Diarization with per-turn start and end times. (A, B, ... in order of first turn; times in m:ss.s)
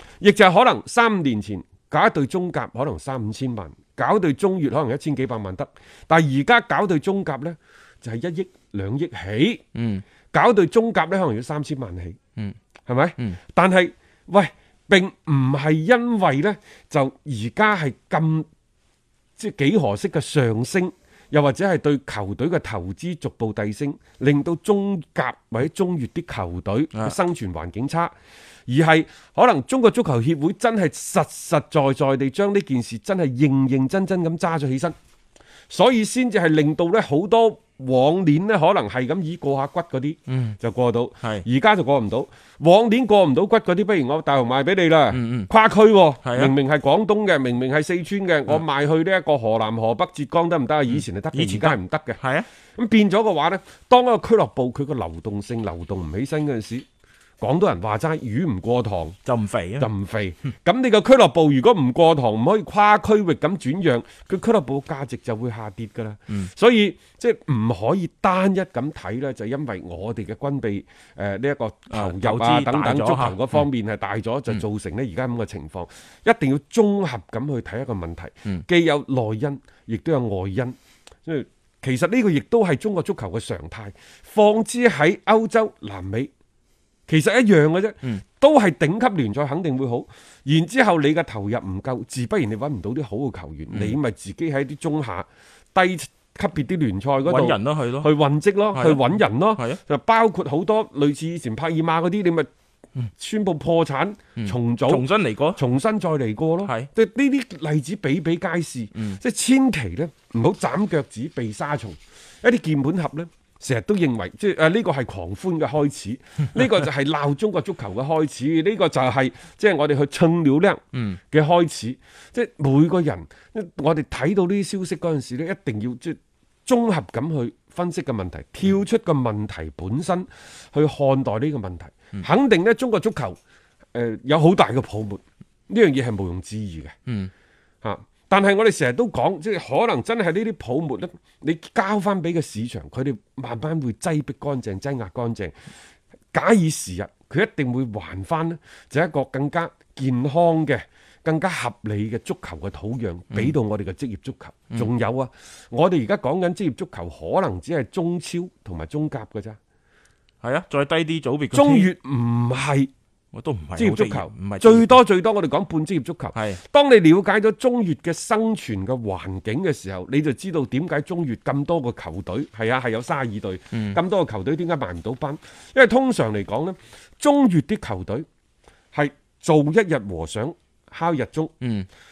0:00.2-0:09.6 A
0:09.8-0:10.0 B
0:10.3-0:12.2 A
0:12.9-0:18.5 A
0:19.4-0:28.1 A
0:28.7-0:35.0 A
0:35.7-0:52.2 A
0:40.3-0:40.6 B
0:45.1-0:45.5 B
0:46.2-0:46.5 B
0:50.9-0:52.5 B
0:52.8-0:56.8 A
0:57.4-0:59.2 A
0:59.2-0:59.9 B
0:59.8-1:26.3 A
1:11.9-1:13.7 B
1:27.1-1:42.5 A
1:33.7-1:34.0 B
1:37.2-1:38.1 B
1:38.7-1:39.8 B
1:43.2-2:13.4 A
1:44.4-1:45.6 B
1:46.6-1:46.9 B
2:13.9-2:17.0 A
2:17.8-2:25.5 A
2:26.3-2:39.6 A
2:40.4-2:41.9 B
2:41.5-2:42.9 A
2:43.3-2:45.0 B
2:43.8-2:58.3 A
2:46.3-2:46.6 B
2:53.7-2:54.0 B
2:58.9-3:01.5 A
3:01.6-3:01.9 B